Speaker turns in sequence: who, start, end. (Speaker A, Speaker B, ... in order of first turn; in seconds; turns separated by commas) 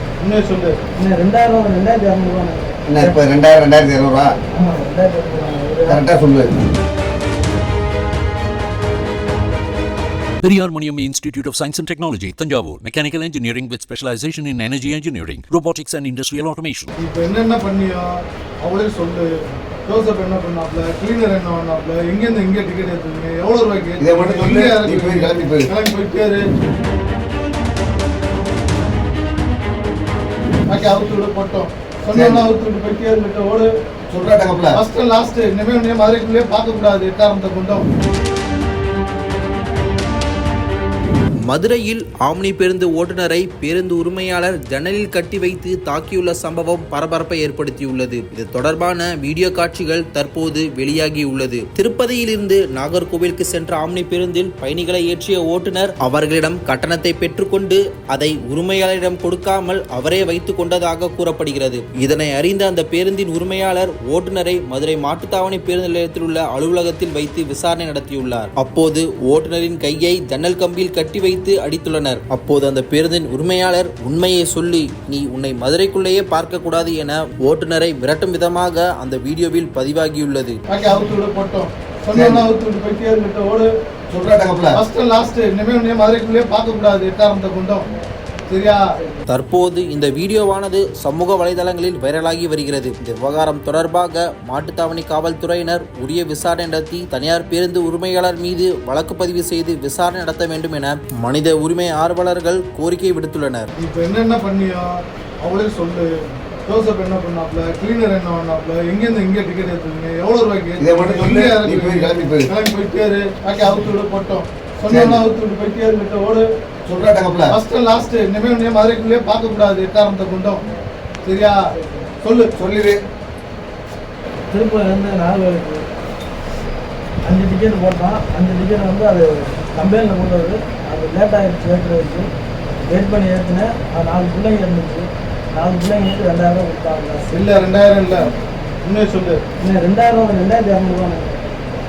Speaker A: 0.2-0.8, Speaker B: 1.0-3.2, Speaker C: 2.9-4.3, Speaker B: 4.5-6.1, Speaker C: 5.9-6.5, Speaker D: 10.4-16.9, Speaker A: 17.0-19.3, Speaker A: 19.9-26.4, Speaker C: 24.0-25.7, Speaker A: 30.7-33.7, Speaker C: 32.1-32.5, Speaker C: 34.1-34.8, Speaker A: 34.7-37.9, Speaker E: 41.5-80.6, Speaker A: 80.7-83.7, Speaker C: 82.1-82.5, Speaker C: 84.1-84.8, Speaker A: 84.7-87.9, Speaker A: 88.5-88.8, Speaker E: 89.3-103.7, Speaker A: 103.8-106.1, Speaker A: 106.7-116.4, Speaker C: 110.8-112.5, Speaker C: 114.9-115.2, Speaker C: 116.8-117.5, Speaker A: 117.5-120.6, Speaker A: 121.2-121.6, Speaker B: 121.7-122.1, Speaker A: 122.2-122.5, Speaker C: 122.5-123.0, Speaker B: 124.5-125.8, Speaker B: 127.2-132.3, Speaker B: 132.9-137.3, Speaker A: 137.3-138.3, Speaker A: 138.8-139.4, Speaker B: 139.6-141.3